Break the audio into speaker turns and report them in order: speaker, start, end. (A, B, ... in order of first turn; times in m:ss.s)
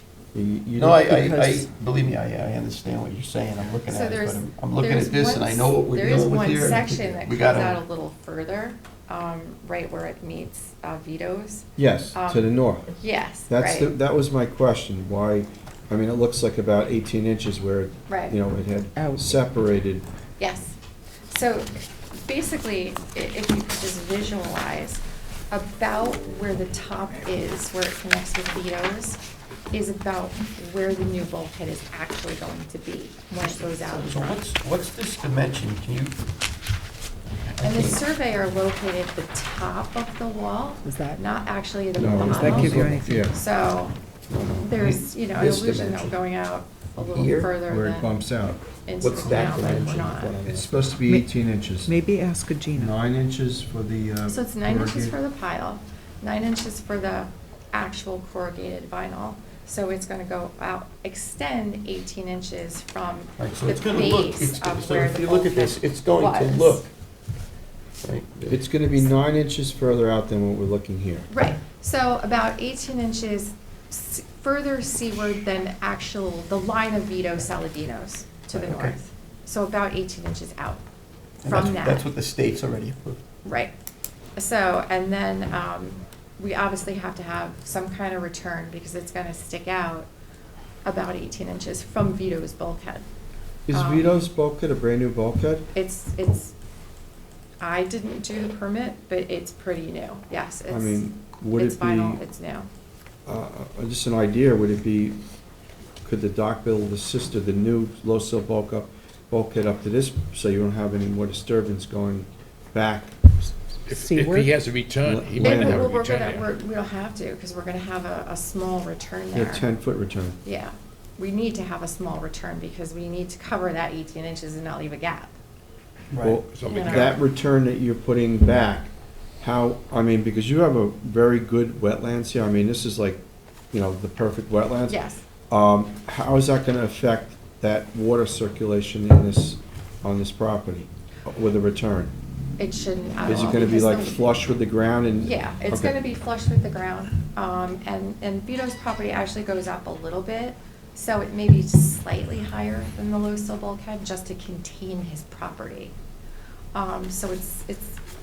0:00.3-0:01.1 A
0:00.8-0:07.8 B
0:01.0-0:01.7 C
0:03.9-0:13.9 D
0:11.8-0:12.9 A
0:13.5-0:20.0 A
0:18.1-0:18.4 D
0:19.0-0:19.3 C
0:20.4-0:20.8 D
0:21.3-0:29.2 D
0:29.7-0:34.4 D
0:33.4-0:36.2 B
0:37.4-0:38.0 B
0:37.6-0:44.0 D
0:40.8-0:41.2 C
0:42.0-0:43.3 A
0:42.0-0:43.3 C
0:44.3-0:46.2 B
0:44.6-0:48.1 D
0:47.0-0:47.5 B
0:47.7-0:48.6 A
0:48.8-0:50.4 D
0:49.0-0:50.7 B
0:49.5-0:51.9 A
0:51.0-0:51.3 C
0:51.8-0:52.9 C
0:52.7-0:55.2 A
0:54.3-1:06.9 D
1:03.4-1:06.9 B
1:08.0-1:08.6 B
1:08.5-1:11.3 A
1:11.3-1:20.8 D
1:18.5-1:19.0 B
1:21.4-1:23.2 B
1:21.4-1:22.1 D
1:23.4-1:23.7 D
1:24.4-1:30.1 D
1:30.8-1:33.0 D
1:33.7-1:35.7 A
1:33.7-1:34.1 D
1:35.7-1:36.5 D
1:37.6-1:42.7 D
1:40.7-1:42.2 A
1:43.2-1:45.2 A
1:46.0-1:53.1 A
1:53.9-1:56.5 E
1:53.9-1:54.5 C
1:55.0-1:55.9 A
1:55.4-1:59.7 D
1:59.3-2:00.4 A
2:00.4-2:05.3 D
2:06.1-2:06.4 B
2:06.2-2:08.9 A
2:06.5-2:07.2 E
2:06.7-2:07.2 D
2:09.4-2:13.2 A
2:13.7-2:15.0 A
2:14.9-2:15.2 D
2:15.5-2:22.1 A
2:22.6-2:24.2 D
2:23.2-2:25.9 A
2:25.2-2:35.9 D
2:36.7-2:38.0 D